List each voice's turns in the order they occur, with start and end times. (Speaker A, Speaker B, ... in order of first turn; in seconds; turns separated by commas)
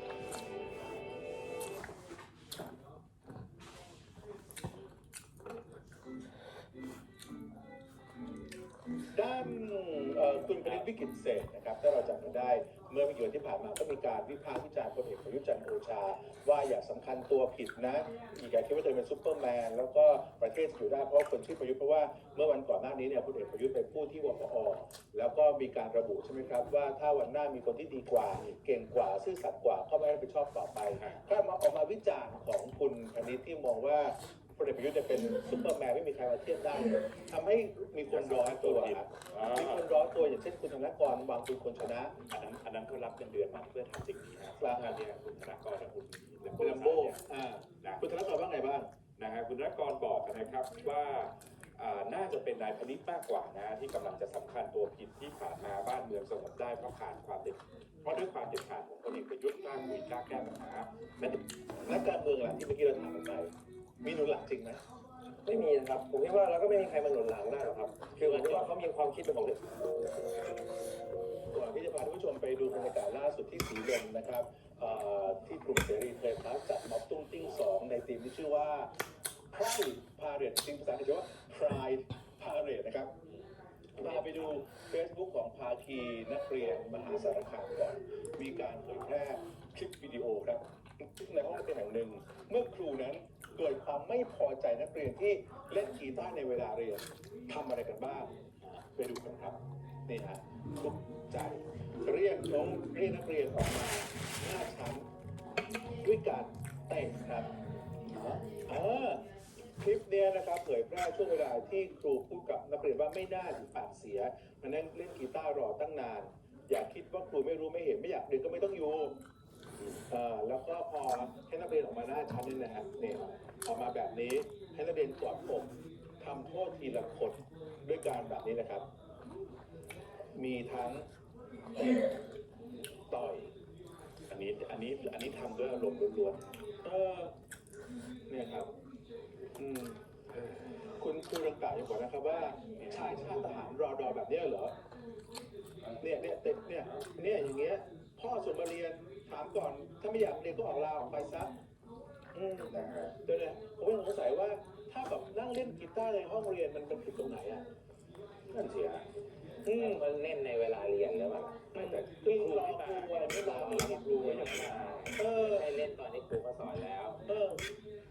Speaker A: 9.1-42.1, Speaker B: 28.3-28.6, Speaker B: 30.9-31.3, Speaker B: 38.1-39.9, Speaker B: 42.3-47.3, Speaker A: 44.6-45.0, Speaker A: 46.6-48.9, Speaker B: 47.8-48.1, Speaker B: 49.2-61.4, Speaker A: 61.9-63.5, Speaker A: 64.0-64.8, Speaker C: 65.5-70.1, Speaker A: 68.1-68.7, Speaker A: 71.5-78.9, Speaker C: 72.7-73.0, Speaker A: 79.5-83.1, Speaker A: 84.0-105.1, Speaker C: 84.0-84.6, Speaker A: 106.0-107.5, Speaker A: 108.6-109.2, Speaker A: 109.8-119.2, Speaker A: 120.1-128.9, Speaker A: 130.3-131.1, Speaker A: 131.8-132.0, Speaker A: 133.1-133.5, Speaker B: 134.3-136.4, Speaker A: 136.8-137.3, Speaker A: 138.3-138.7, Speaker A: 139.6-140.0, Speaker A: 141.0-144.7, Speaker B: 142.7-143.3, Speaker A: 146.0-151.5, Speaker A: 152.3-157.7, Speaker B: 152.7-153.2, Speaker B: 158.5-159.1, Speaker A: 159.7-160.1, Speaker C: 159.7-162.0, Speaker A: 161.7-165.7, Speaker B: 161.9-165.1, Speaker C: 163.0-167.3, Speaker A: 167.3-167.6